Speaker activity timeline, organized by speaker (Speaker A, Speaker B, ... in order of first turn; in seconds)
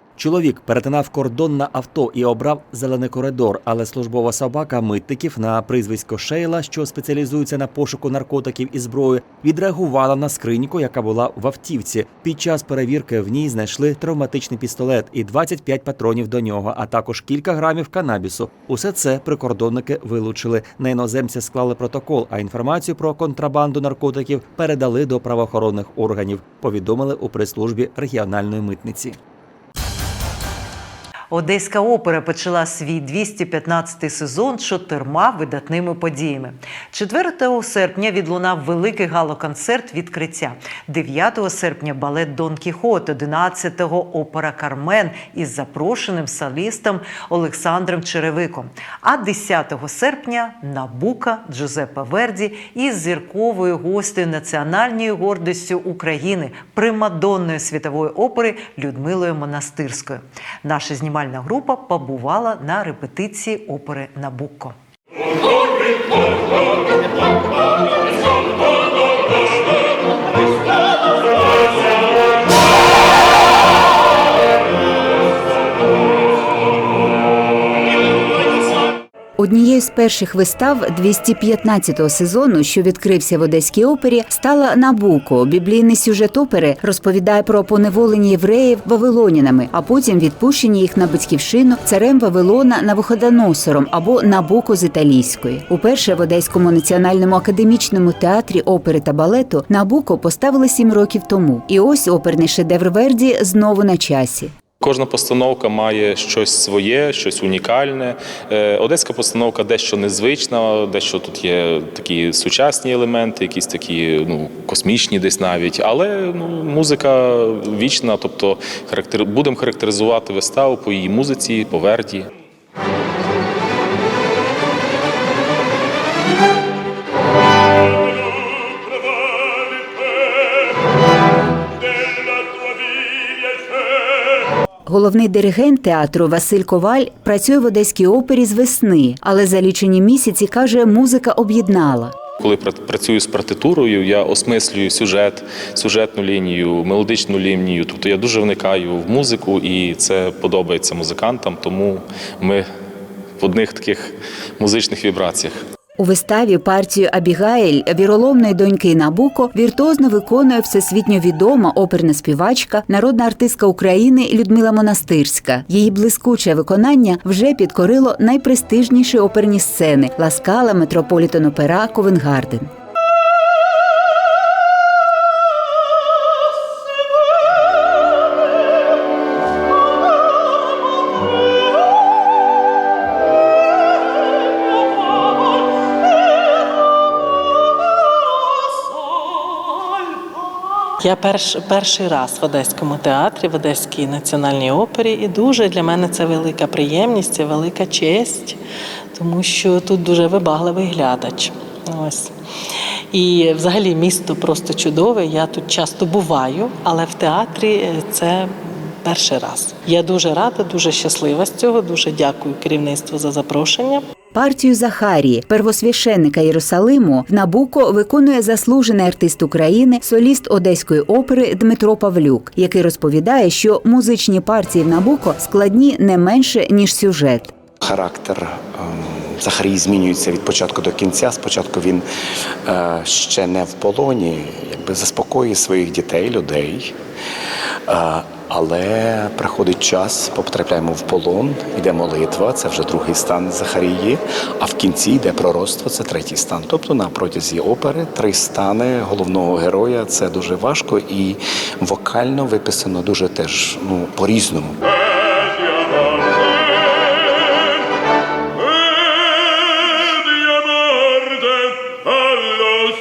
Speaker A: 0.2-29.2
Speaker B: 31.3-64.8
Speaker C: 79.4-104.5, 134.8-142.2, 156.0-172.7, 214.3-227.6
Speaker D: 104.8-122.3, 142.4-152.7, 153.4-155.6
Speaker E: 191.0-198.6, 199.1-202.3, 203.1-214.1
Speaker F: 227.8-232.1, 232.7-237.0, 237.9-254.8